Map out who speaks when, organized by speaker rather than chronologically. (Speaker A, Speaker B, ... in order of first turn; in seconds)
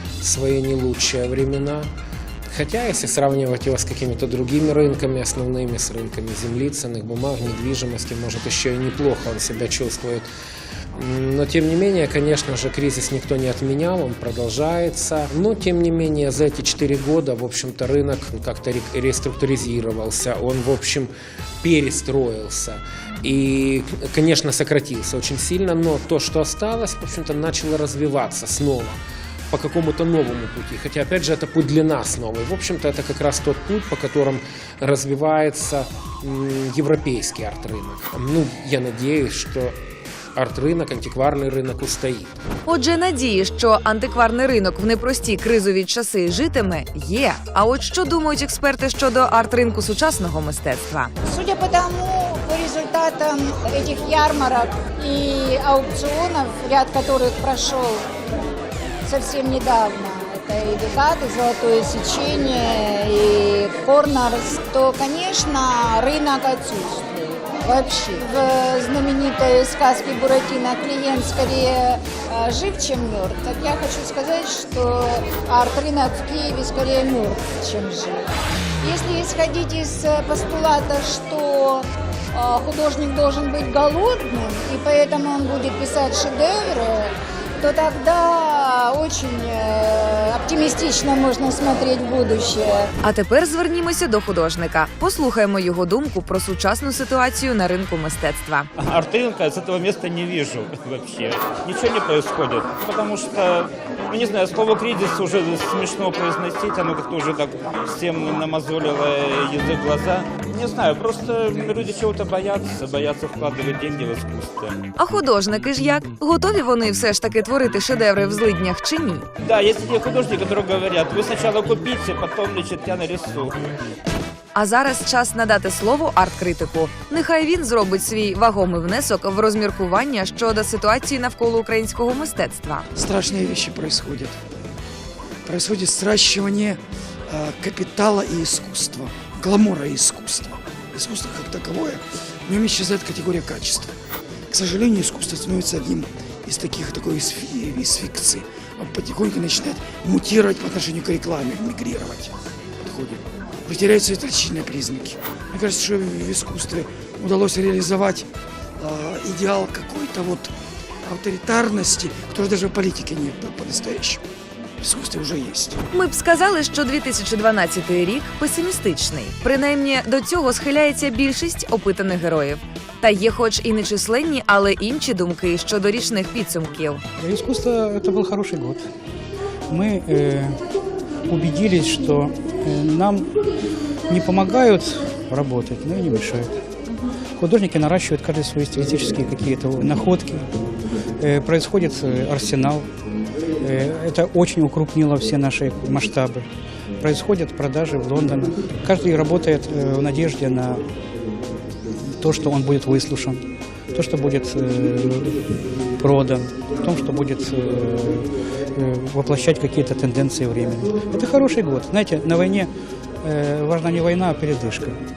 Speaker A: 0.2-1.9, 2.5-10.2, 10.9-29.0, 29.5-39.8, 40.4-42.3
Speaker B: 42.7-51.1, 93.0-98.7, 115.0-119.3, 124.5-132.9, 165.9-177.0
Speaker C: 51.2-58.0, 59.0-78.2, 78.8-92.9
Speaker D: 98.8-114.8, 119.4-123.7
Speaker E: 132.9-134.4, 135.4-143.9, 144.5-158.3, 158.8-160.5, 161.1-164.2, 164.8-165.8
Speaker F: 177.2-178.8, 179.7-180.6, 181.2-183.4, 184.1-186.6, 187.4-190.6, 191.2-192.9, 193.6-196.5, 197.0-200.8, 201.9-212.7, 213.2-215.0